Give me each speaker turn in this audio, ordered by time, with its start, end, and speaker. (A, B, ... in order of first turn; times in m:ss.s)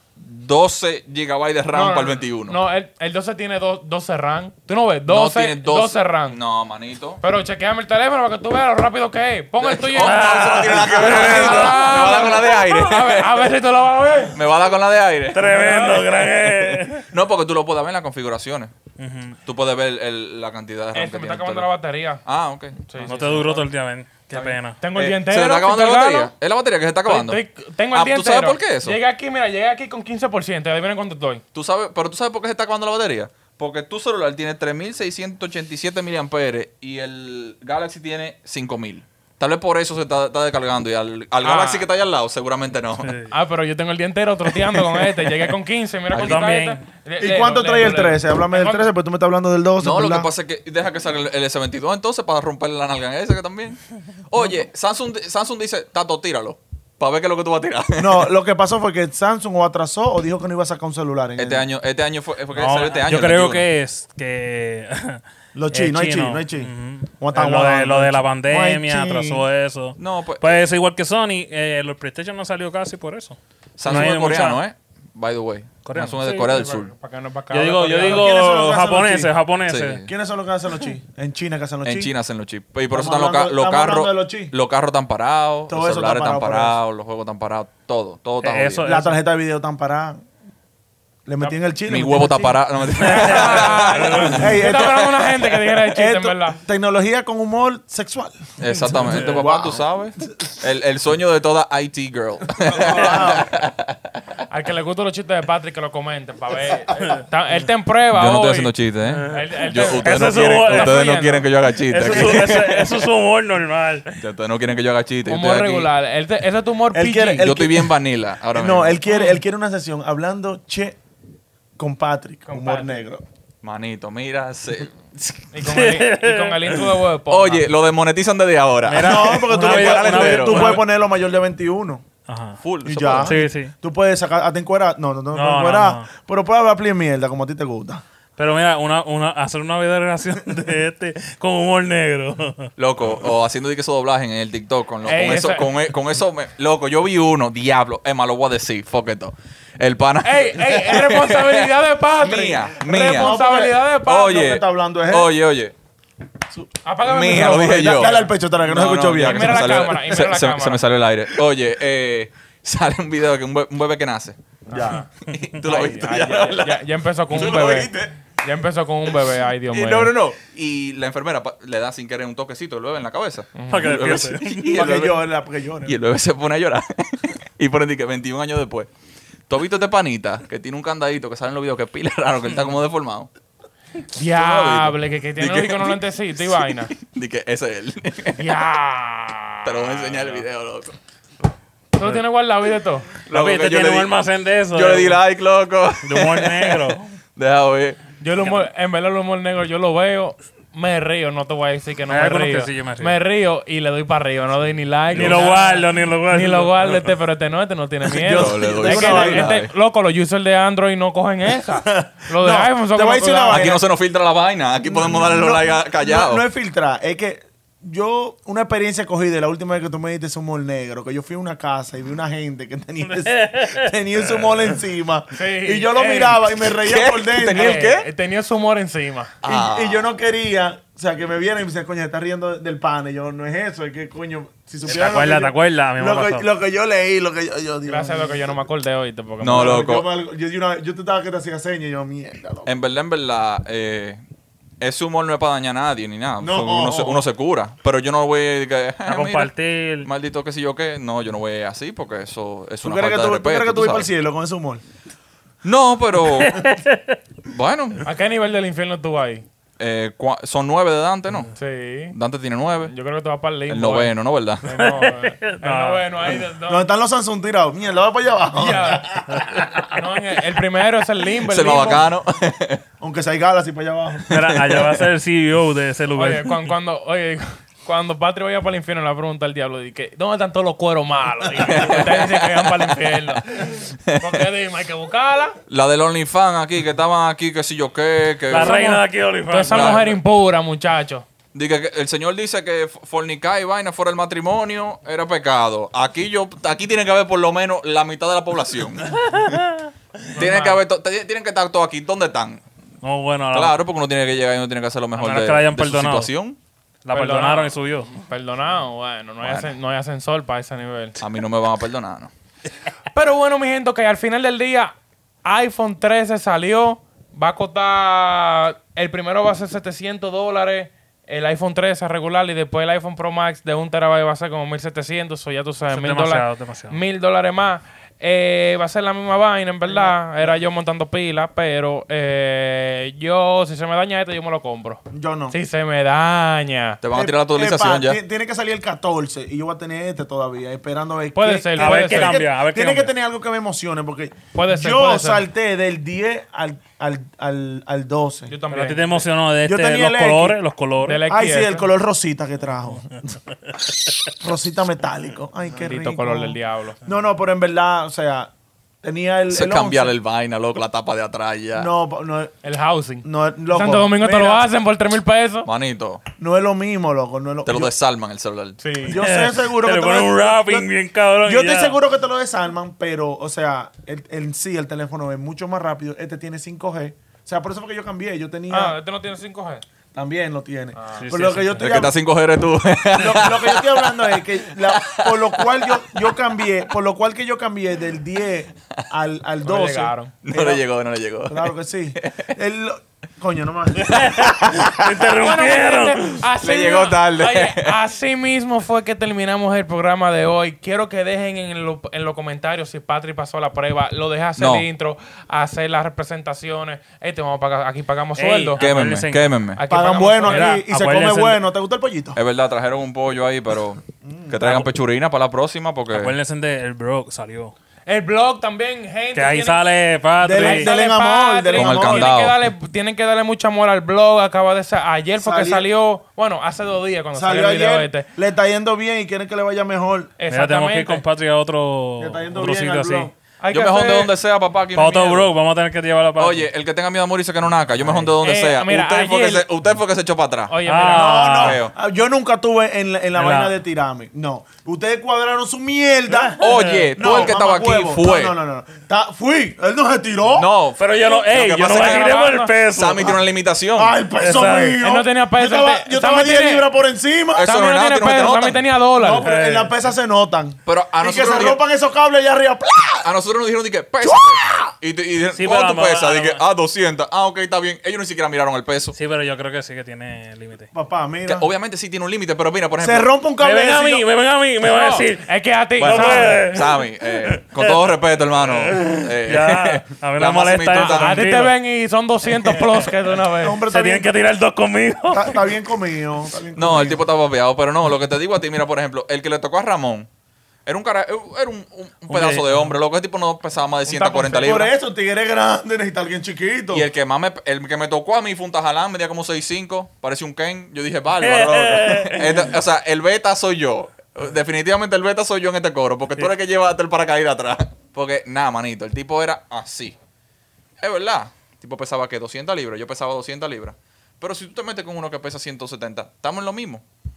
0:00.2-0:02.6 A
0:01.7-0:06.4 B
0:05.1-0:07.2 A
0:07.2-0:14.4 B
0:09.6-0:13.5 A
0:09.9-0:12.8 C
0:14.3-0:15.9 A
0:15.3-0:17.1 C
0:15.5-0:16.1 B
0:16.4-0:18.7 A
0:19.0-0:19.4 C
0:19.4-0:21.7 A
0:20.9-0:22.2 B
0:22.2-0:23.1 A
0:22.8-0:23.6 B
0:23.0-0:24.8 C
0:24.3-0:27.4 A
0:24.8-0:26.3 B
0:27.0-0:31.4 B
0:27.9-0:29.0 A
0:31.5-0:43.2 A
0:41.4-0:41.8 B
0:43.0-0:43.3 C
0:43.3-0:48.8 B
0:44.7-0:45.4 A
0:46.1-0:46.4 A
0:46.1-0:46.8 C
0:47.2-0:50.3 D
0:49.8-0:58.3 A
0:58.0-1:01.6 D
1:01.4-1:03.6 A
1:02.5-1:14.6 C
1:05.5-1:09.4 D
1:10.0-1:10.6 A
1:13.8-1:16.9 A
1:15.8-1:16.2 C
1:16.2-1:18.3 B
1:17.5-1:20.0 C
1:18.0-1:19.3 D
1:19.7-1:20.1 A
1:20.0-1:22.1 D
1:21.8-1:28.8 A
1:22.9-1:24.5 D
1:25.7-1:26.8 D
1:28.4-1:29.2 C
1:28.8-1:30.2 D
1:31.2-1:32.6 D
1:31.9-1:35.4 A
1:33.0-1:34.6 C
1:33.1-1:36.6 B
1:34.3-1:35.1 D
1:35.8-1:40.5 D
1:38.6-1:44.0 A
1:42.6-1:43.5 D
1:44.5-1:48.7 B
1:48.1-1:53.0 A
1:49.1-1:51.0 C
1:49.3-1:51.5 B
1:51.8-1:54.1 C
1:54.2-1:55.9 A
1:55.2-1:57.5 B
1:56.9-1:57.9 D
1:57.4-1:59.0 A
1:58.5-2:01.0 D
1:59.1-1:59.4 B
2:01.8-2:03.2 D
2:02.5-2:03.0 B
2:03.6-2:05.5 A
2:05.5-2:07.7 B
2:05.6-2:07.0 C
2:07.3-2:10.8 A
2:08.8-2:12.0 D
2:08.9-2:10.8 C
2:12.3-2:12.6 C
2:12.6-2:13.4 A
2:12.8-2:18.0 D
2:13.2-2:13.7 C
2:15.3-2:16.1 C
2:18.4-2:22.7 C
2:22.8-2:33.4 A
2:25.0-2:25.7 B
2:30.2-2:34.5 B
2:32.9-2:35.3 D
2:34.0-2:35.7 A
2:36.8-2:38.3 B
2:37.0-2:48.2 A
2:37.3-2:39.9 D
2:39.2-2:40.8 B
2:44.7-2:50.1 B
2:49.7-2:55.2 A
2:53.6-2:54.0 B
2:53.7-2:54.8 C
2:54.7-2:56.0 D
2:55.8-2:58.9 A
2:59.5-3:03.3 A
3:04.1-3:06.9 B
3:04.3-3:08.4 A
3:08.4-3:10.4 B
3:09.6-3:10.9 A
3:11.9-3:13.1 B
3:13.2-3:15.2 C
3:13.3-3:14.1 A
3:14.7-3:18.0 A
3:16.0-3:17.1 C
3:18.2-3:33.8 B
3:22.1-3:23.2 C
3:25.1-3:27.1 C
3:28.2-3:29.6 D
3:28.2-3:29.7 A
3:31.9-3:33.8 D
3:33.5-3:36.4 A
3:34.8-3:47.8 D
3:43.0-3:44.6 C
3:45.3-3:46.6 B
3:46.7-3:48.1 A
3:47.5-3:49.3 B
3:49.4-3:50.1 A
3:49.4-3:58.6 D
3:54.8-3:56.5 C
3:57.9-3:59.8 B
3:59.4-4:00.1 A
3:59.5-4:02.7 D
4:02.6-4:04.2 A
4:04.8-4:09.5 A
4:06.4-4:07.2 D
4:09.0-4:10.1 C
4:10.0-4:14.1 A
4:12.8-4:14.8 D
4:15.6-4:16.6 A
4:16.4-4:17.2 C
4:17.4-4:18.0 A
4:18.0-4:19.4 B
4:19.8-4:21.5 A
4:21.5-4:22.2 B
4:22.1-4:22.9 A
4:22.8-4:24.1 B
4:23.7-4:24.6 A
4:24.6-4:26.9 B
4:24.7-4:26.4 C
4:26.7-4:29.7 D
4:28.5-4:29.2 B
4:29.3-4:29.6 C
4:29.8-4:32.1 B
4:31.5-4:32.8 A
4:33.0-4:34.3 D
4:34.3-4:36.7 C
4:36.2-4:45.6 B
4:41.6-4:42.9 A
4:44.1-4:44.4 A
4:45.7-4:48.9 A
4:48.5-4:50.2 C
4:48.5-4:51.2 B
4:49.7-4:50.2 A
4:51.5-4:59.6 A
4:59.4-4:59.7 C
5:00.3-5:00.8 B
5:00.3-5:02.6 A
5:03.0-5:03.8 C
5:03.5-5:06.6 A
5:05.2-5:06.3 C
5:07.0-5:08.1 C
5:07.1-5:11.2 B
5:09.4-5:09.7 A
5:11.2-5:12.3 A
5:13.1-5:14.9 B
5:15.4-5:37.0 B
5:25.9-5:27.0 C
5:29.8-5:30.5 D
5:35.1-5:35.6 D
5:37.0-5:38.2 A
5:37.1-5:48.5 D
5:41.3-5:42.4 B
5:41.8-5:43.1 C
5:44.5-5:45.4 B
5:48.5-5:49.2 B
5:48.7-5:51.2 C
5:49.6-5:50.6 D
5:51.0-5:51.9 B
5:51.3-5:53.2 D
5:54.4-5:58.5 D
5:55.8-5:57.0 B
5:59.0-6:00.1 D
5:59.5-6:01.9 A
6:01.7-6:02.5 D
6:02.6-6:05.7 B
6:03.2-6:04.7 D
6:05.6-6:06.2 A
6:06.4-6:07.9 D
6:07.6-6:08.8 A
6:08.8-6:09.2 B
6:09.0-6:10.9 D
6:09.1-6:12.0 C
6:11.4-6:19.0 D
6:18.7-6:19.8 B
6:20.1-6:22.1 D
6:21.0-6:21.3 B
6:21.2-6:22.0 C
6:21.8-6:26.3 A
6:23.1-6:30.8 D
6:29.6-6:30.3 B
6:30.4-6:32.5 A
6:31.5-6:34.2 D
6:34.0-6:35.3 A
6:34.0-6:36.5 C
6:35.4-6:48.8 B
6:36.6-6:38.0 A
6:44.6-6:44.9 A
6:48.4-6:49.6 C
6:48.8-6:49.8 A
6:49.8-6:50.8 B
6:49.9-6:52.4 D
6:50.4-6:51.6 C
6:52.3-6:56.3 A
6:54.2-6:54.6 D
6:54.6-6:54.8 C
6:56.1-6:57.7 C
6:58.0-6:59.8 B
6:59.3-7:00.9 C
7:00.4-7:02.3 D
7:00.5-7:08.2 B
7:01.7-7:02.6 A
7:05.4-7:05.9 D
7:07.3-7:10.3 D
7:10.4-7:11.2 B
7:10.5-7:13.3 C
7:12.2-7:13.3 D
7:13.6-7:14.3 B
7:13.7-7:15.5 A
7:14.9-7:16.7 C
7:16.4-7:20.7 A
7:18.0-7:18.3 C
7:18.4-7:19.7 B
7:20.7-7:21.6 B
7:20.8-7:21.8 C
7:21.0-7:30.7 D
7:21.6-7:21.9 A
7:23.4-7:23.8 C
7:26.4-7:27.1 C
7:26.6-7:28.5 A
7:30.5-7:34.2 A
7:31.0-7:33.4 C
7:31.2-7:32.7 B
7:33.9-7:37.7 D
7:34.4-7:35.0 C
7:35.0-7:36.9 B
7:37.6-7:38.8 A
7:37.6-7:39.5 B
7:39.2-7:43.3 D
7:39.4-7:39.9 C
7:40.8-7:41.8 A
7:43.2-7:49.1 A
7:44.2-7:44.9 D
7:45.5-7:46.6 C
7:49.1-7:50.9 C
7:50.9-7:51.7 D
7:51.5-7:53.3 A
7:53.0-7:54.2 D
7:53.6-7:55.5 C
7:54.8-7:56.6 B
7:56.0-8:01.5 A
7:56.0-7:58.0 C
7:58.6-8:01.7 C
8:00.9-8:03.8 B
8:02.5-8:03.1 C
8:03.6-8:04.3 D
8:03.9-8:05.7 C
8:05.3-8:07.2 D
8:06.8-8:10.3 A
8:10.8-8:14.9 A
8:12.3-8:12.9 C
8:14.1-8:14.9 B
8:14.6-8:17.0 D
8:16.9-8:30.2 A
8:21.4-8:22.7 C
8:31.0-8:37.0 A